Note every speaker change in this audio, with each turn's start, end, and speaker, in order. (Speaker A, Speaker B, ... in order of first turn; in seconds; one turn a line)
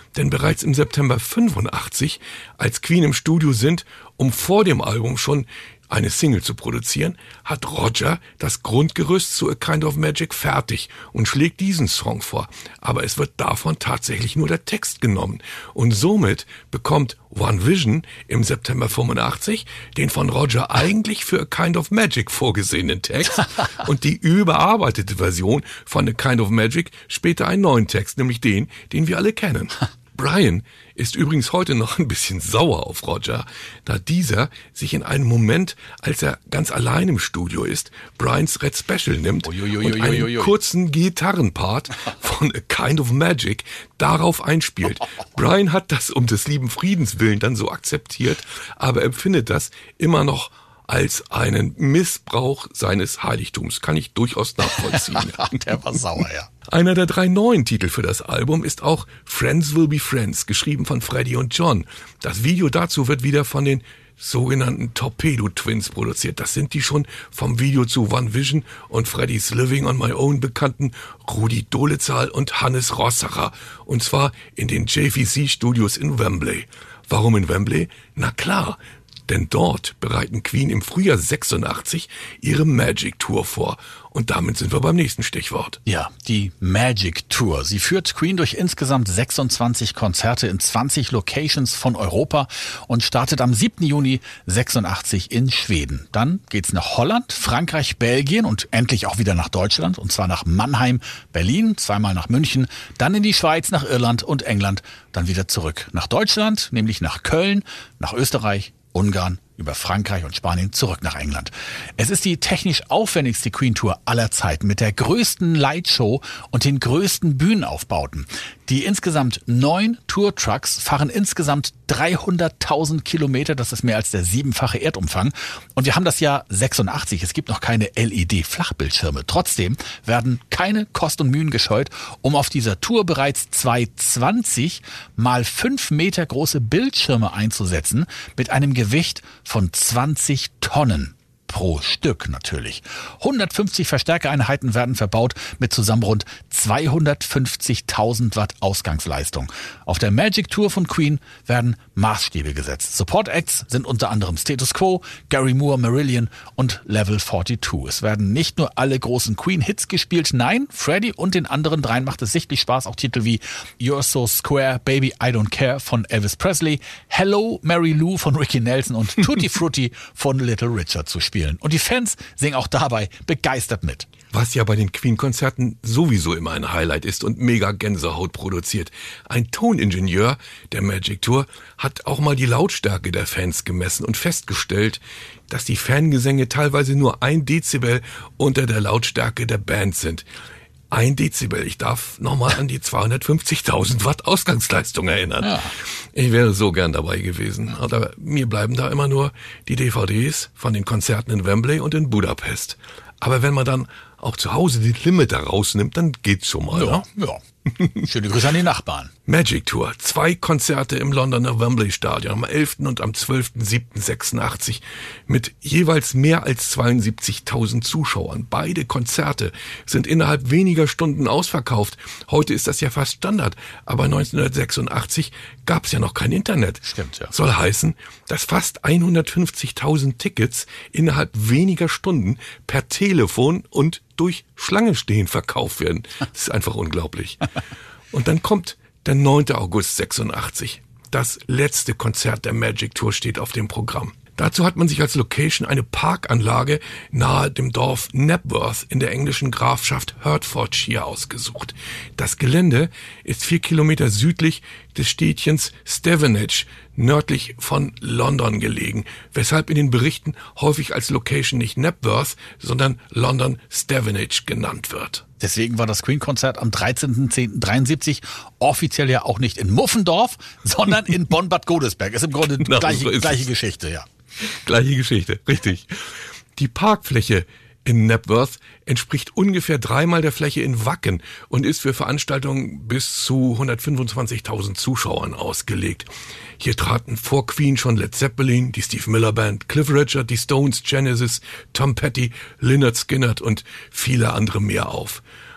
Speaker A: 0.1-55.5
Speaker B: 39.5-40.5
Speaker B: 54.7-56.5
Speaker A: 56.7-85.8
Speaker B: 85.8-174.1
Speaker A: 174.3-190.2
Speaker A: 190.9-207.0
Speaker B: 195.4-195.7
Speaker B: 206.7-209.1
Speaker A: 209.3-237.5
Speaker B: 226.8-227.3
Speaker A: 238.1-265.2
Speaker B: 265.4-274.1
Speaker A: 272.6-273.4
Speaker A: 274.4-276.0
Speaker A: 276.6-295.2